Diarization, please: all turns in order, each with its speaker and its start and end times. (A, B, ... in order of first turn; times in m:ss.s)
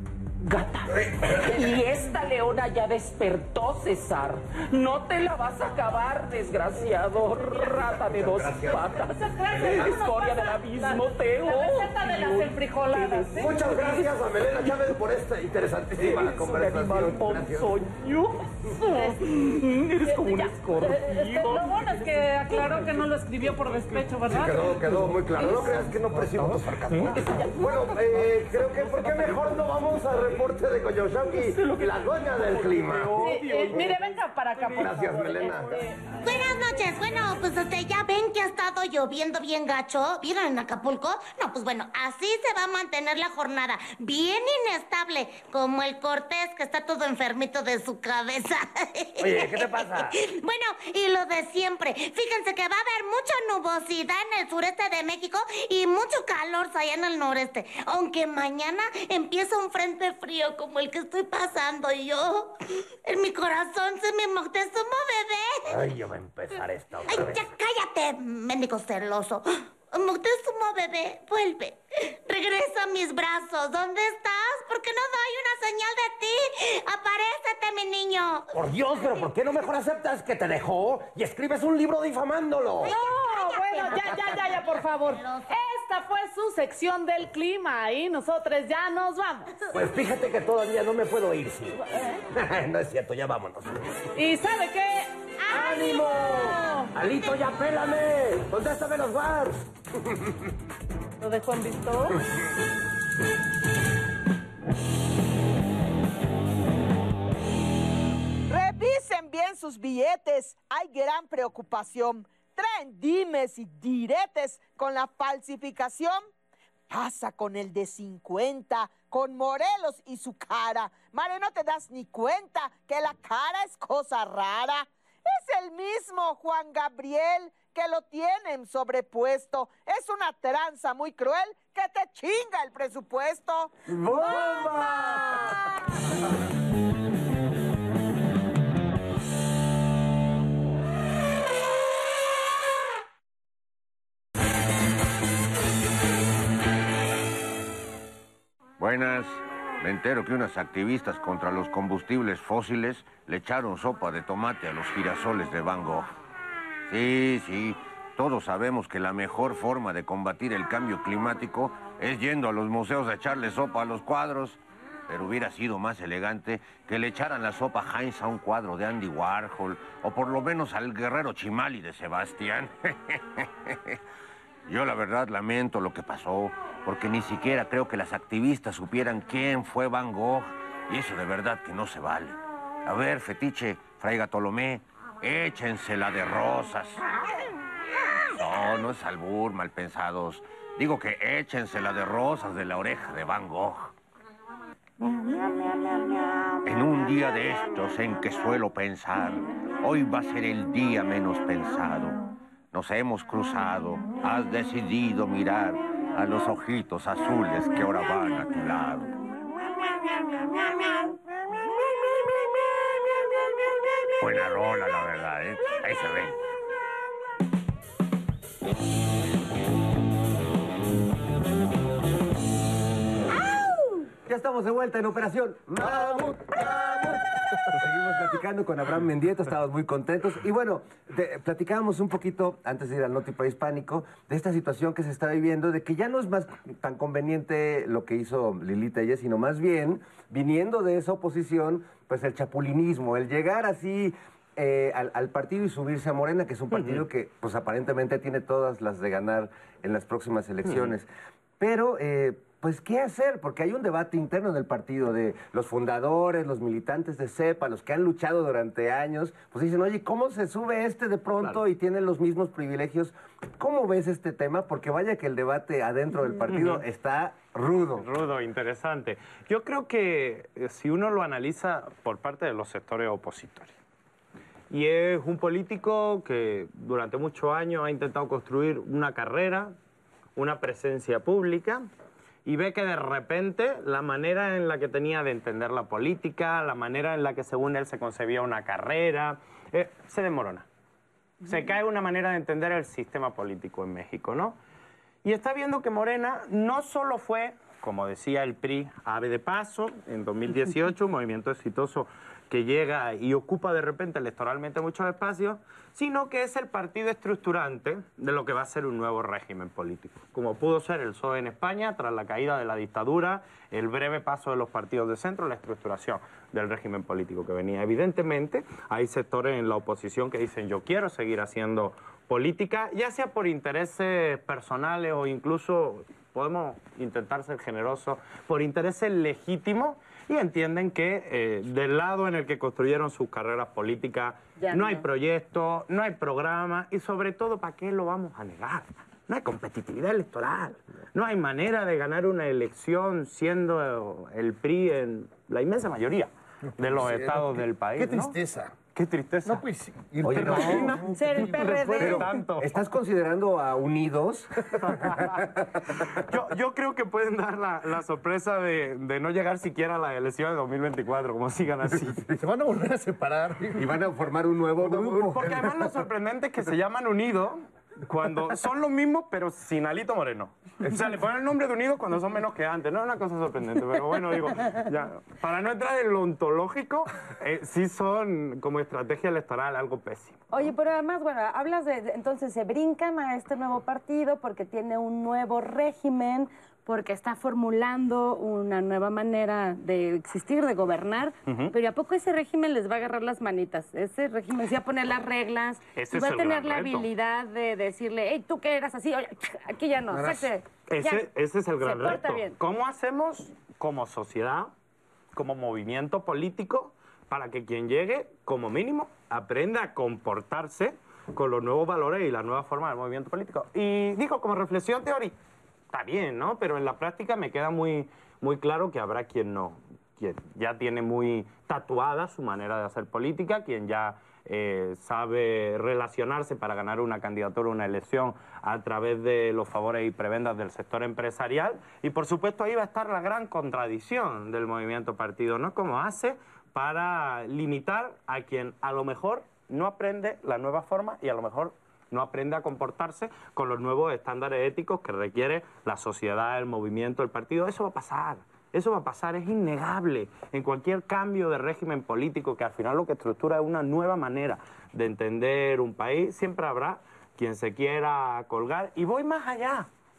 0:00.4-0:14.1 A
0:01.1-0:01.6 B
0:07.3-0:07.9 C
0:08.1-0:08.8 B
0:09.0-0:14.0 C
0:09.5-0:09.9 B
0:13.4-0:17.6 B
0:16.0-0:23.1 A
0:16.7-0:17.3 D
0:18.7-0:19.3 C
0:20.0-0:25.6 C
0:23.8-0:24.1 A
0:24.2-0:33.9 B
0:25.3-0:26.6 D
0:25.4-0:29.5 A
0:27.6-0:30.7 D
0:31.2-0:35.0 A
0:33.2-0:36.8 C
0:34.8-0:35.7 B
0:36.1-0:36.7 A
0:36.2-1:02.5 E
0:49.2-0:50.2 B
1:03.0-1:05.7 E
1:05.7-1:07.5 B
1:07.1-1:18.5 E
1:18.5-1:22.9 B
1:22.8-1:29.6 C
1:22.8-1:24.4 E
1:25.2-1:25.5 E
1:29.7-1:33.8 B
1:34.2-1:36.9 C
1:35.5-1:39.7 B
1:35.5-1:36.0 E
1:41.2-1:42.2 C
1:48.5-1:56.3 F
1:56.9-2:15.4 F
2:13.9-2:15.7 D
2:28.8-2:36.1 G
2:36.9-2:54.0 G
2:54.7-3:07.0 G
3:08.4-3:13.9 G
3:16.6-3:31.2 G
3:34.2-3:36.4 G
3:44.3-4:11.1 D
4:06.7-4:07.0 H
4:10.6-4:10.9 H
4:11.6-4:28.0 D
4:26.4-4:26.8 H
4:28.0-4:33.8 H
4:34.7-4:39.8 H
4:40.4-4:41.9 H
4:42.4-4:50.7 H
4:51.4-4:54.6 H
4:55.2-5:48.4 H
5:34.6-5:35.0 I
5:46.8-5:48.8 J
5:48.9-5:49.6 H
5:49.4-5:52.1 J
5:50.2-5:55.7 D
5:50.3-5:52.8 H
5:51.1-5:52.3 I
5:54.8-5:55.3 H
5:55.9-6:02.2 H
6:02.4-6:03.9 J
6:03.8-6:05.7 D
6:05.0-6:20.4 H
6:20.5-6:41.3 I
6:31.5-6:31.7 H
6:36.0-6:37.1 H
6:40.9-6:44.7 H
6:41.8-6:42.6 I
6:45.3-6:55.3 H
6:55.9-7:39.9 H